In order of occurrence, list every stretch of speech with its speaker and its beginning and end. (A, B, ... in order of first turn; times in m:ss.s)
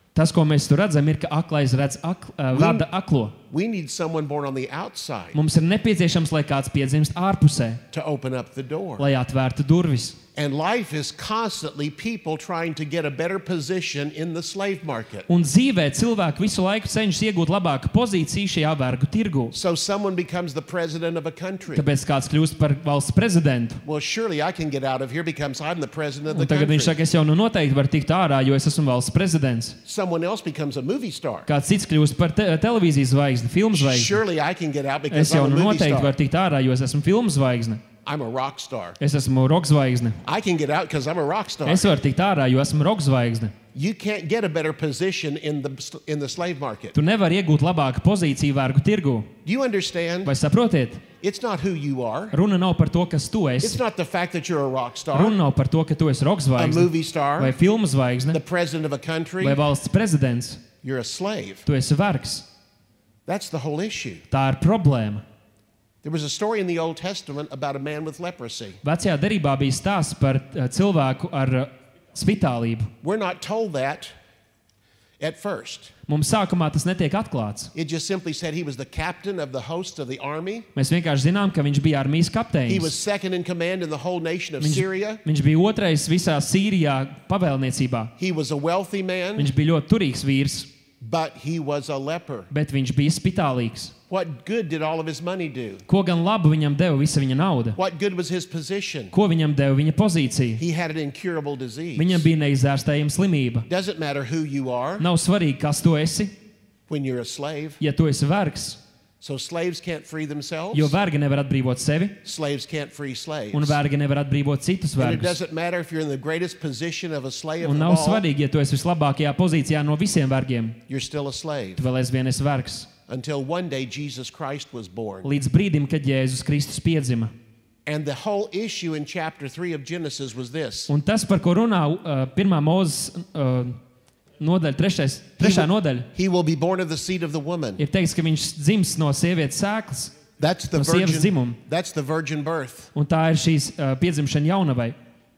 0:00.2-0:03.4 A
0:02.5-0:02.9 B
0:03.5-0:05.4 B
0:05.4-0:07.8 A
0:07.9-0:09.1 B
0:09.0-0:10.2 A
0:10.4-0:15.3 B
0:15.3-0:19.5 A
0:19.5-0:21.9 B
0:21.7-0:23.8 A
0:23.8-0:27.0 B
0:26.3-0:29.8 A
0:29.9-0:31.5 B
0:31.5-0:34.2 A
0:33.7-0:36.1 B
0:35.1-0:37.8 A
0:38.1-0:39.0 B
0:39.0-0:40.2 A
0:40.2-0:41.9 B
0:41.7-0:43.5 A
0:43.8-0:47.0 B
0:46.9-0:49.3 A
0:49.4-0:50.3 B
0:50.2-0:51.0 A
0:51.2-0:52.4 B
0:52.3-0:53.8 A
0:53.6-0:55.4 B
0:55.1-0:58.4 A
0:56.6-0:57.6 B
0:58.3-0:59.6 B
0:59.4-1:00.6 A
1:00.8-1:01.7 B
1:01.7-1:02.5 A
1:03.3-1:04.2 B
1:04.3-1:05.2 A
1:06.0-1:08.8 B
1:08.8-1:12.9 A
1:13.0-1:14.1 B
1:15.2-1:15.9 B
1:16.1-1:17.7 A
1:17.8-1:20.7 B
1:20.8-1:22.9 A
1:22.7-1:25.2 B
1:24.6-1:28.1 A
1:28.2-1:29.5 B
1:29.4-1:30.7 A
1:31.0-1:32.5 B
1:32.5-1:33.9 A
1:34.1-1:35.8 B
1:35.9-1:37.8 A
1:37.8-1:39.1 B
1:39.1-1:40.6 A
1:40.6-1:42.3 B
1:42.0-1:43.7 A
1:43.7-1:45.1 B
1:45.0-1:46.3 A
1:46.9-1:47.8 B
1:47.8-1:48.8 A
1:49.2-1:50.9 B
1:50.7-1:52.2 A
1:52.2-1:53.8 B
1:53.5-1:55.4 A
1:55.0-1:58.2 B
1:57.6-2:00.8 A
2:00.9-2:01.8 B
2:01.8-2:02.9 A
2:03.1-2:05.3 B
2:05.2-2:07.3 A
2:07.9-2:10.9 B
2:10.9-2:13.8 A
2:14.4-2:16.1 A
2:15.4-2:17.8 B
2:17.8-2:20.1 A
2:20.4-2:22.9 B
2:20.7-2:21.6 A
2:23.0-2:25.0 A